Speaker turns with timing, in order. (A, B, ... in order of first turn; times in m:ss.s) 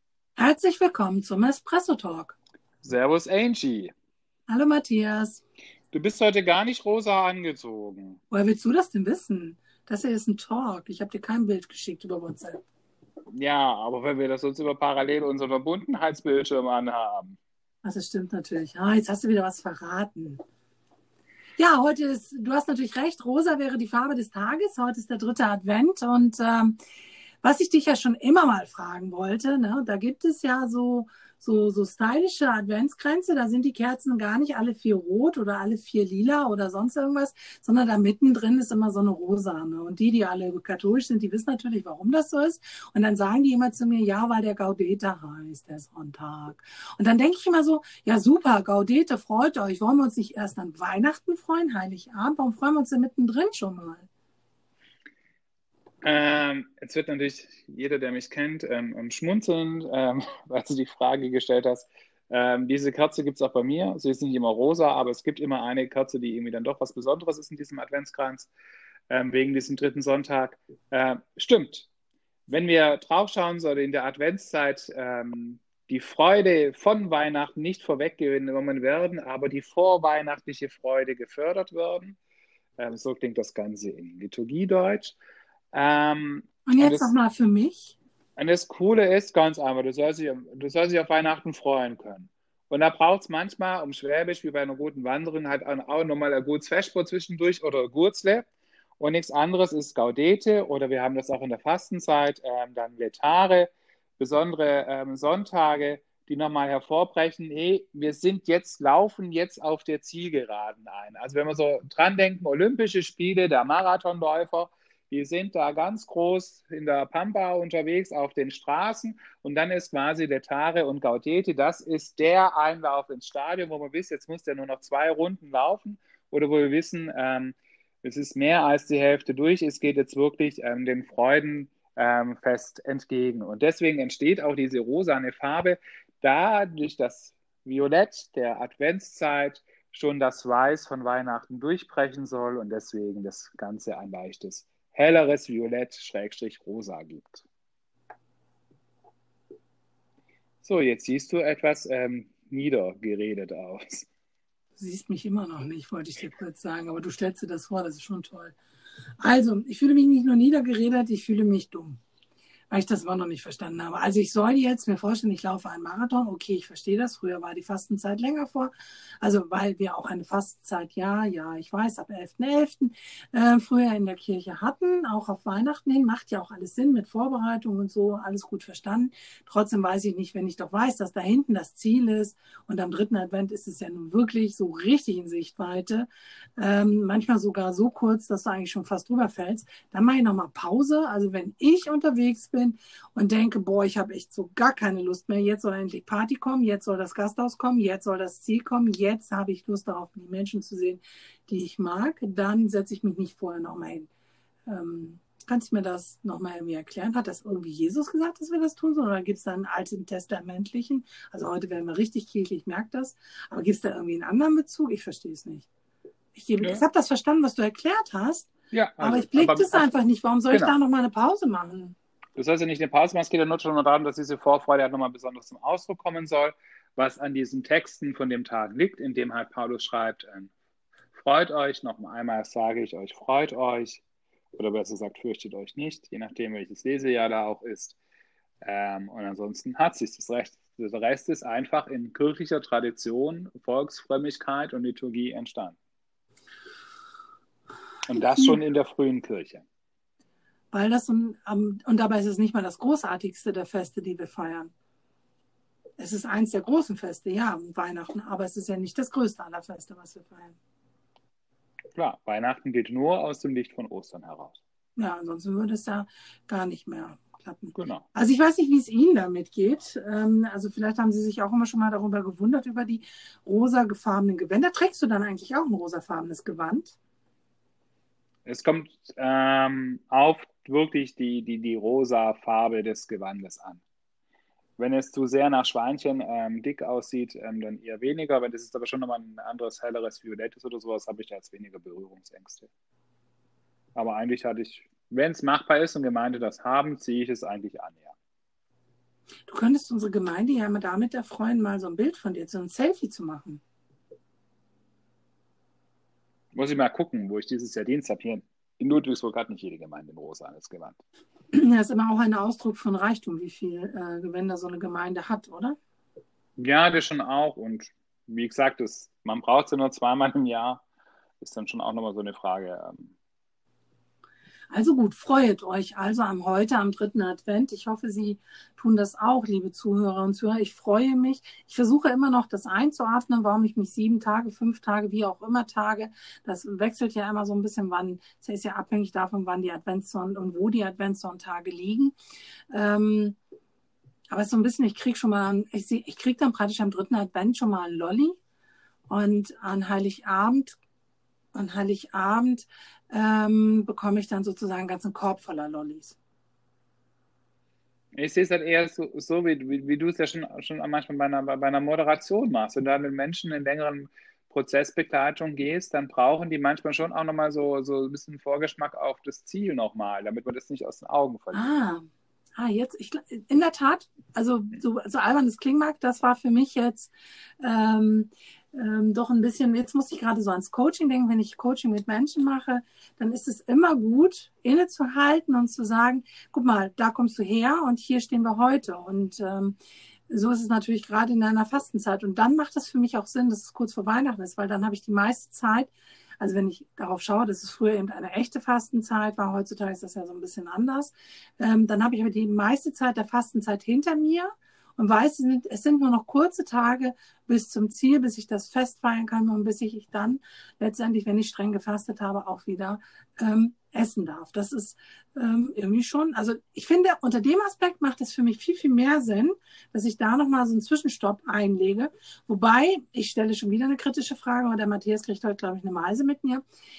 0:00.4-0:02.4 A
0:02.8-0:03.9 B
0:04.5-0:05.4 A
0:05.9-0:08.2 B
0:08.3-0:12.6 A
0:13.3-0:17.4 B
0:17.8-0:20.4 A
0:21.6-0:26.8 A
0:27.4-0:54.1 A
0:56.0-1:08.5 B
1:09.1-1:11.9 B
1:12.5-1:22.2 B
1:22.8-1:25.2 B
1:25.7-1:27.1 B
1:26.7-1:27.9 A
1:28.4-1:38.5 B
1:39.0-2:27.5 B
2:30.6-2:34.1 B
2:34.8-2:38.6 A
2:39.2-2:42.0 A
2:42.7-3:24.1 A
3:24.7-3:35.7 A
3:36.3-3:42.0 A
3:38.7-3:39.8 B
3:40.5-3:40.8 B
3:42.4-3:50.5 B
3:51.1-3:54.0 B
3:54.6-3:58.0 B
3:58.6-4:05.8 B
4:08.1-4:09.6 B
4:08.2-4:08.6 A
4:10.7-4:14.7 A
4:16.0-4:20.6 A
4:22.0-4:24.6 B
4:25.0-4:37.0 A
4:27.8-4:28.0 B
4:38.4-4:43.8 B
4:44.8-4:52.7 B
4:54.0-4:58.2 B
4:59.5-5:03.6 A
5:06.5-5:11.0 B
5:11.5-5:15.8 A
5:16.6-5:20.8 B
5:21.4-5:23.1 B
5:24.7-5:42.1 A
5:42.7-5:43.4 A
5:44.3-5:48.4 A
5:49.1-5:50.8 A
5:51.5-5:56.2 A
5:58.2-6:11.7 B
6:11.5-6:12.1 A
6:12.6-6:29.8 A
6:30.3-7:06.6 A